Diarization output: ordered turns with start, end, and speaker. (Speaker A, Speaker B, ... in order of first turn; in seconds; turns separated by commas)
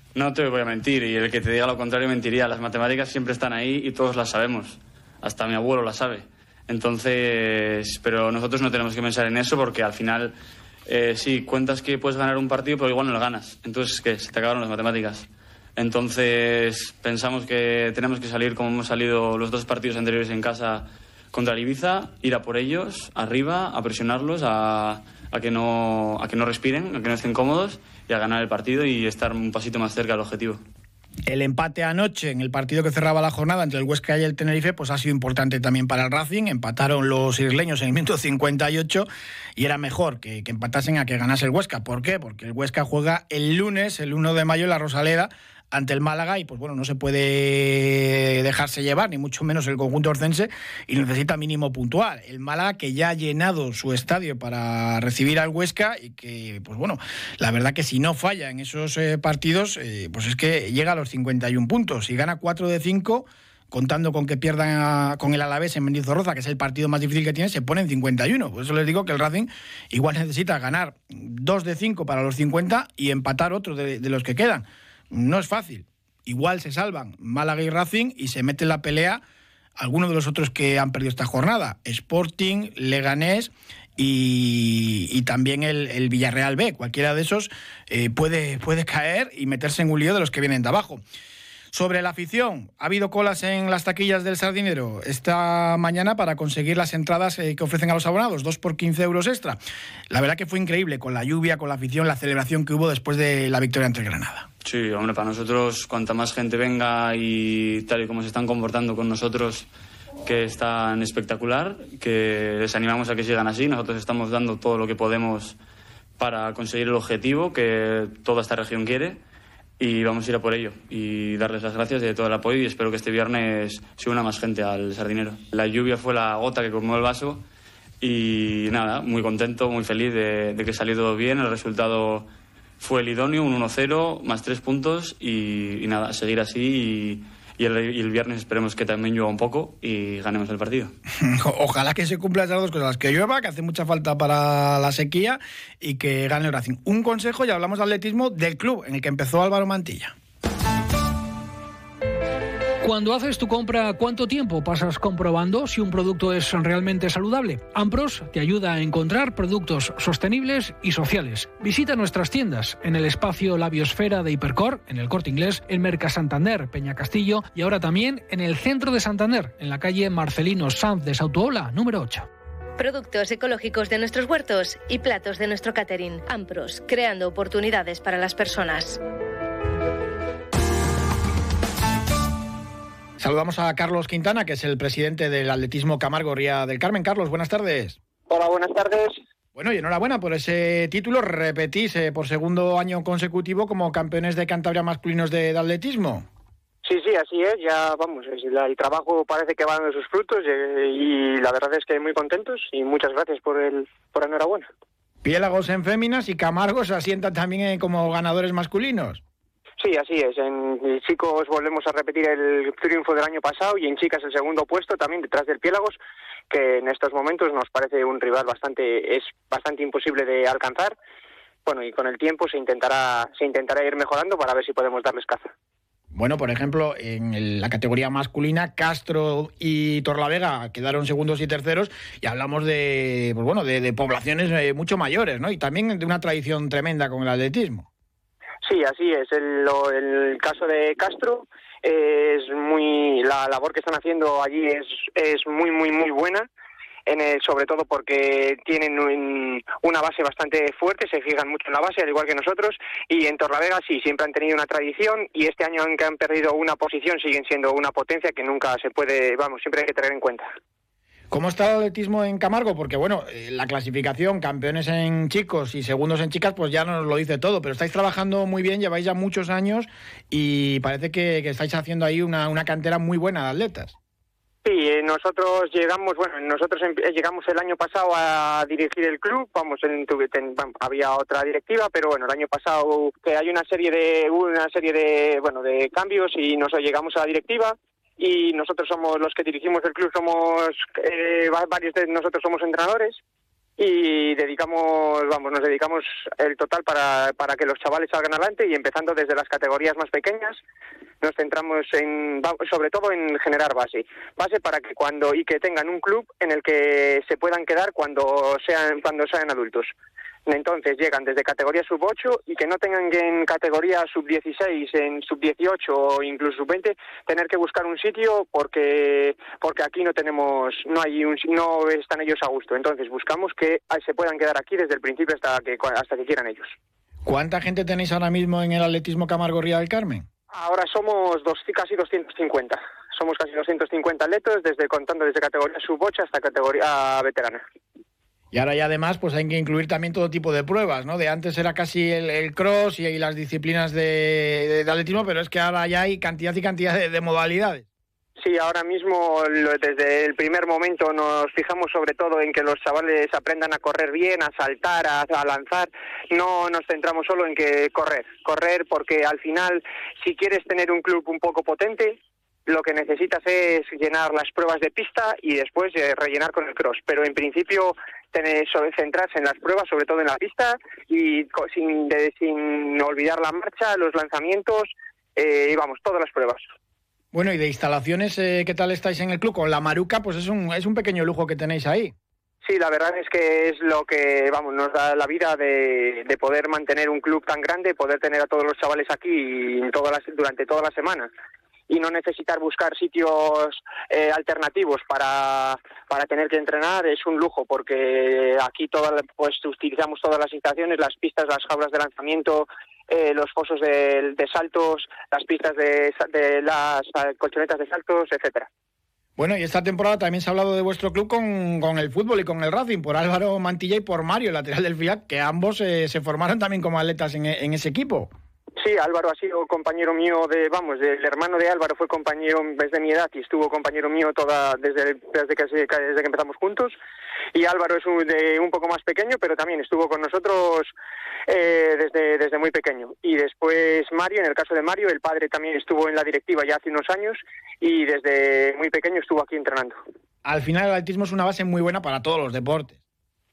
Speaker A: 0.1-10.3, Speaker A: 10.9-30.6, Speaker B: 31.3-79.2, Speaker B: 79.8-91.0, Speaker B: 91.7-99.6, Speaker B: 100.1-104.5, Speaker A: 104.6-109.7, Speaker A: 110.2-115.6, Speaker A: 116.2-119.2, Speaker A: 119.8-127.4, Speaker A: 128.0-132.3, Speaker A: 132.8-140.9, Speaker B: 141.2-150.2, Speaker C: 152.8-172.3, Speaker D: 172.8-179.0, Speaker B: 183.2-188.0, Speaker E: 188.3-189.2, Speaker B: 189.6-196.3, Speaker E: 196.8-204.7, Speaker B: 205.2-209.2, Speaker E: 209.8-216.0, Speaker E: 216.5-220.9, Speaker E: 221.7-225.5, Speaker B: 226.1-237.9, Speaker E: 238.6-246.5, Speaker E: 247.1-260.5, Speaker B: 261.3-273.9, Speaker E: 274.6-293.2, Speaker E: 293.8-300.6, Speaker E: 301.2-309.9, Speaker E: 310.5-326.8, Speaker B: 327.2-330.3, Speaker E: 330.5-337.6, Speaker B: 338.5-347.9, Speaker E: 348.4-376.7, Speaker B: 377.3-382.1, Speaker E: 382.6-391.3, Speaker E: 391.9-408.7, Speaker B: 409.4-418.3, Speaker E: 418.8-427.0, Speaker E: 427.5-430.9, Speaker E: 431.5-440.0, Speaker B: 440.4-443.0